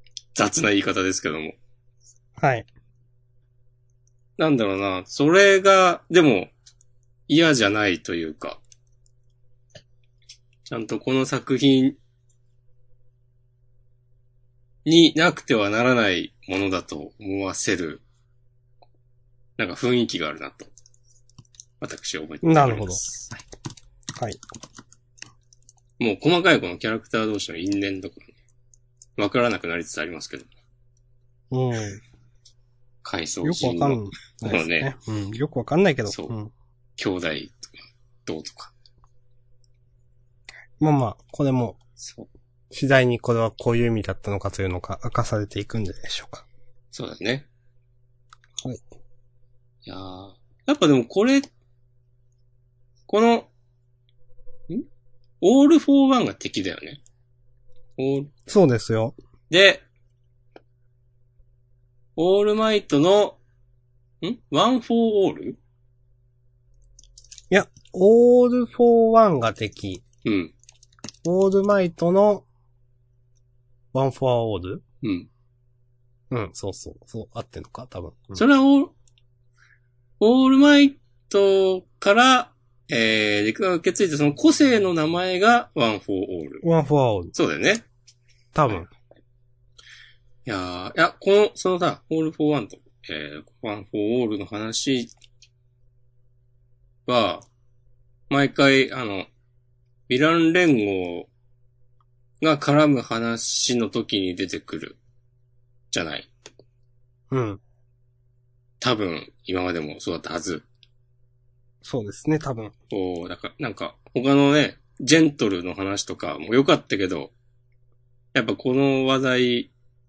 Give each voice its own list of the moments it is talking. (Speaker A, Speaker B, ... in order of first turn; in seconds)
Speaker A: 0.3-1.6, 4.4-6.5, 7.3-8.6, 10.7-12.0, 14.8-18.0, 19.6-20.7, 21.8-23.4, 26.0-28.3, 29.2-30.5, 33.0-34.9, 37.0-38.7, 42.0-42.3, 46.9-47.5, 49.9-51.5, 53.1-53.5, 55.4-57.0, 58.0-58.3, 59.5-59.8, 62.2-63.4, 64.2-65.6, 70.2-70.5, 75.0-75.3, 78.3-78.9, 80.2-86.6, 87.3-87.8, 90.5-95.1, 97.1-97.5, 98.3-99.3, 100.1-101.3, 102.4-105.0, 105.9-106.3, 108.8-110.7, 112.9-117.3, 118.3-119.7
Speaker B: 2.4-2.7, 22.4-23.0, 31.5-32.0, 33.4-36.5, 40.8-41.8, 42.7-46.5, 58.5-59.2, 67.5-70.0, 71.2-72.5, 73.9-74.8, 76.3-78.4, 86.6-87.3, 88.5-88.9, 107.3-107.6, 111.8-112.7